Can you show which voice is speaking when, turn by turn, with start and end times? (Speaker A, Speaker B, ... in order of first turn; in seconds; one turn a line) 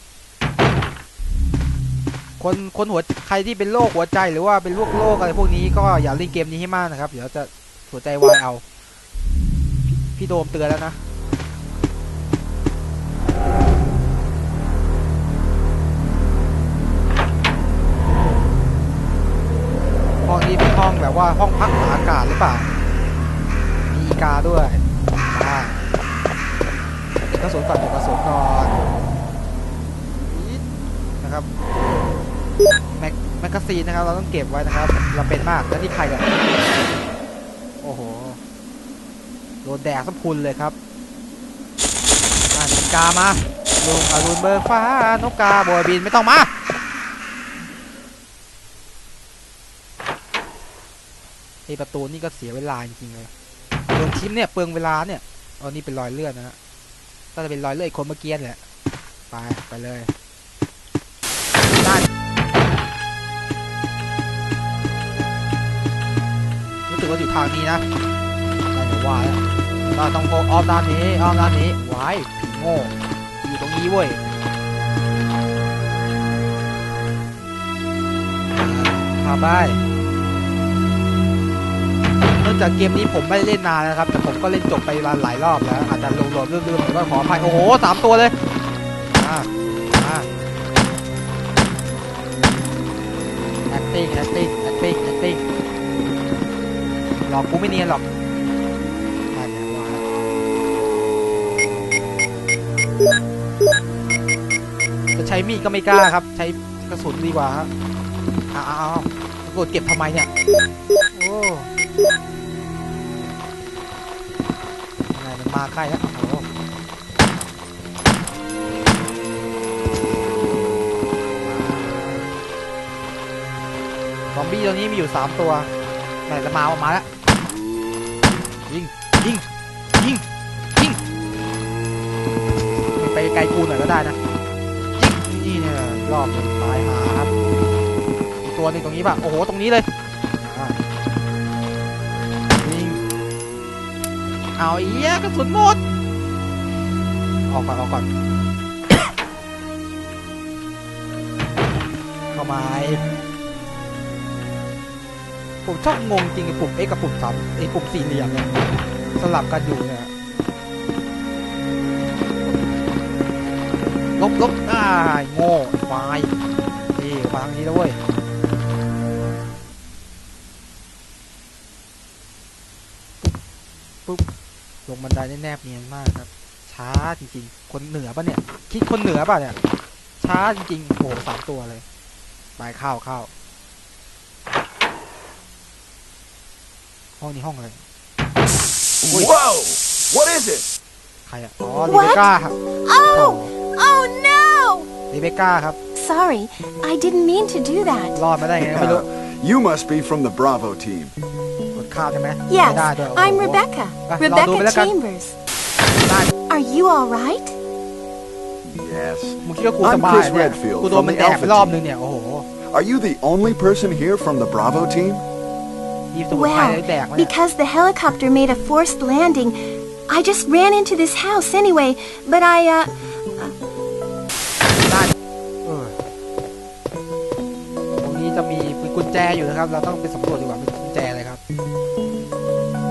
Speaker A: 2.4-8.6
Speaker A: 10.1-11.0
Speaker A: 20.2-22.7
Speaker A: 23.9-25.8
Speaker A: 27.2-28.8
Speaker A: 30.2-30.6
Speaker A: 31.2-31.5
Speaker A: 33.0-36.3
Speaker A: 37.8-38.4
Speaker A: 39.6-40.8
Speaker A: 42.5-46.5
Speaker A: 51.7-53.3
Speaker A: 54.0-56.6
Speaker A: 57.4-58.6
Speaker A: 59.3-60.1
Speaker A: 61.8-62.1
Speaker A: 66.9-67.8
Speaker A: 68.7-74.2
Speaker A: 78.5-79.8
Speaker A: 82.4-88.3
Speaker A: 89.1-90.3
Speaker A: 93.7-95.4
Speaker A: 97.3-98.0
Speaker A: 99.3-100.0
Speaker A: 105.2-107.7
Speaker A: 108.5-110.3
Speaker A: 111.1-111.7
Speaker A: 115.1-116.5
Speaker A: 121.4-122.3
Speaker A: 124.3-125.7
Speaker A: 126.3-127.1
Speaker A: 128.7-129.4
Speaker A: 130.0-130.2
Speaker A: 132.9-134.2
Speaker A: 135.0-137.3
Speaker A: 138.4-139.9
Speaker A: 140.4-140.8
Speaker A: 142.6-143.0
Speaker A: 144.6-145.8
Speaker A: 147.5-148.1
Speaker A: 152.3-153.0
Speaker A: 155.6-158.6
Speaker A: 159.2-160.1
Speaker A: 164.2-166.3
Speaker A: 166.9-168.0
Speaker A: 174.9-179.6
Speaker A: 180.2-181.8
Speaker A: 182.6-183.3
Speaker A: 187.2-187.8
Speaker B: 189.0-190.7
Speaker A: 191.3-192.6
Speaker C: 191.9-192.2
Speaker C: 192.8-194.9
Speaker A: 193.1-193.5
Speaker A: 195.1-195.8
Speaker C: 196.0-198.2
Speaker A: 198.2-199.1
Speaker B: 198.6-201.2
Speaker A: 201.8-204.9
Speaker C: 202.5-205.4
Speaker A: 206.1-206.3
Speaker C: 206.5-207.6
Speaker B: 208.6-211.8
Speaker A: 209.4-212.5
Speaker B: 212.7-215.2
Speaker A: 216.1-217.3
Speaker C: 216.3-223.5
Speaker A: 224.8-226.0
Speaker A: 228.0-231.4